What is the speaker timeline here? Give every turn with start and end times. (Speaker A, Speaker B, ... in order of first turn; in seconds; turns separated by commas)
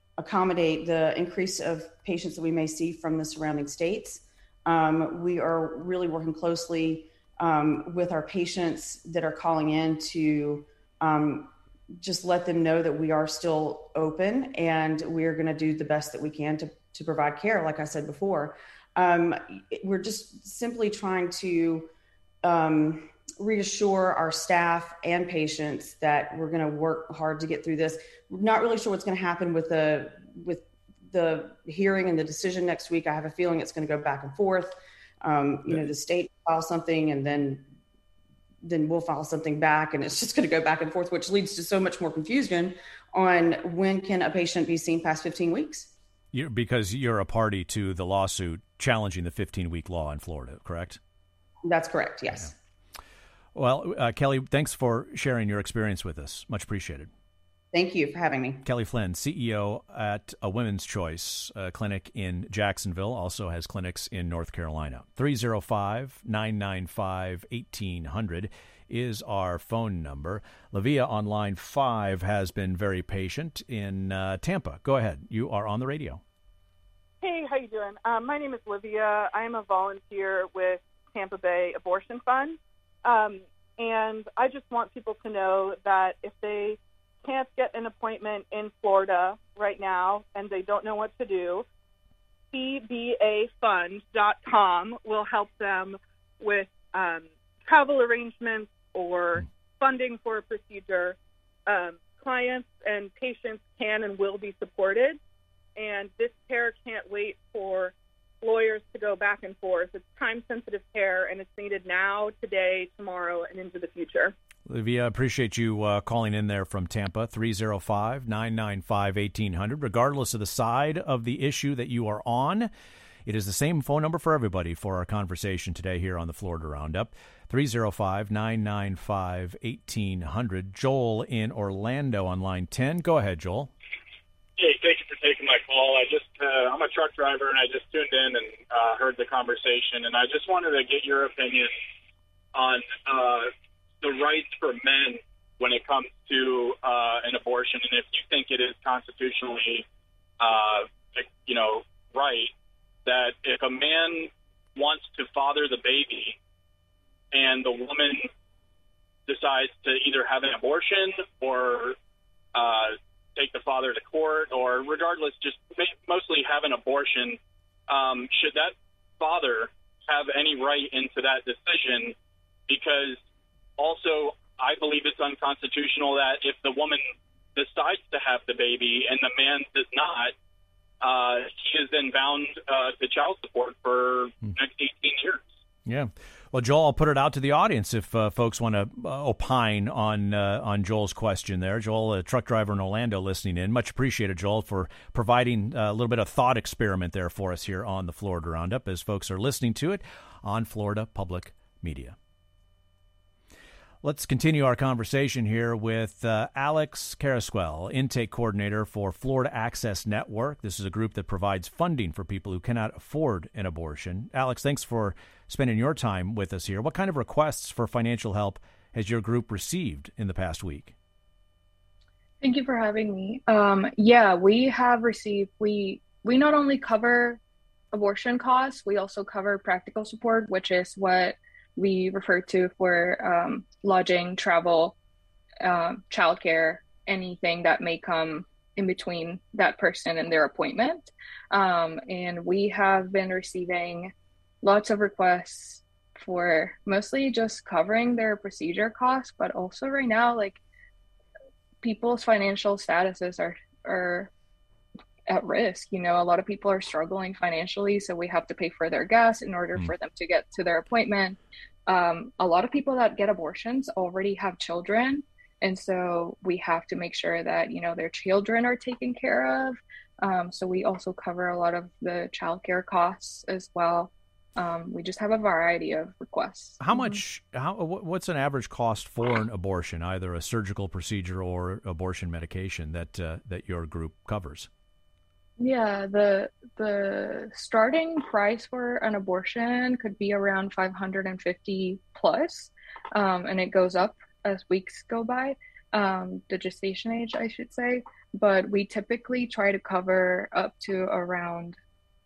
Speaker A: 0.2-21.9, Speaker A: 22.4-37.7, Speaker A: 38.6-45.9, Speaker B: 46.3-51.0, Speaker A: 51.6-52.5, Speaker B: 53.5-57.1, Speaker A: 57.7-58.6, Speaker B: 58.6-76.2, Speaker C: 77.2-91.7, Speaker C: 92.5-105.2, Speaker C: 105.8-114.3, Speaker B: 114.7-122.7, Speaker B: 123.3-133.7, Speaker D: 134.6-141.8, Speaker D: 142.6-149.9, Speaker D: 150.4-152.5, Speaker D: 153.1-156.4, Speaker D: 157.3-158.3, Speaker D: 159.3-162.0, Speaker D: 162.6-172.2, Speaker D: 172.7-173.2, Speaker D: 173.8-180.3, Speaker D: 181.0-185.5, Speaker B: 185.8-202.2, Speaker B: 204.0-220.9, Speaker E: 222.4-227.4, Speaker E: 227.9-235.0, Speaker E: 235.6-250.6, Speaker E: 251.8-254.3, Speaker E: 255.3-277.2, Speaker B: 276.8-284.7, Speaker E: 285.6-301.8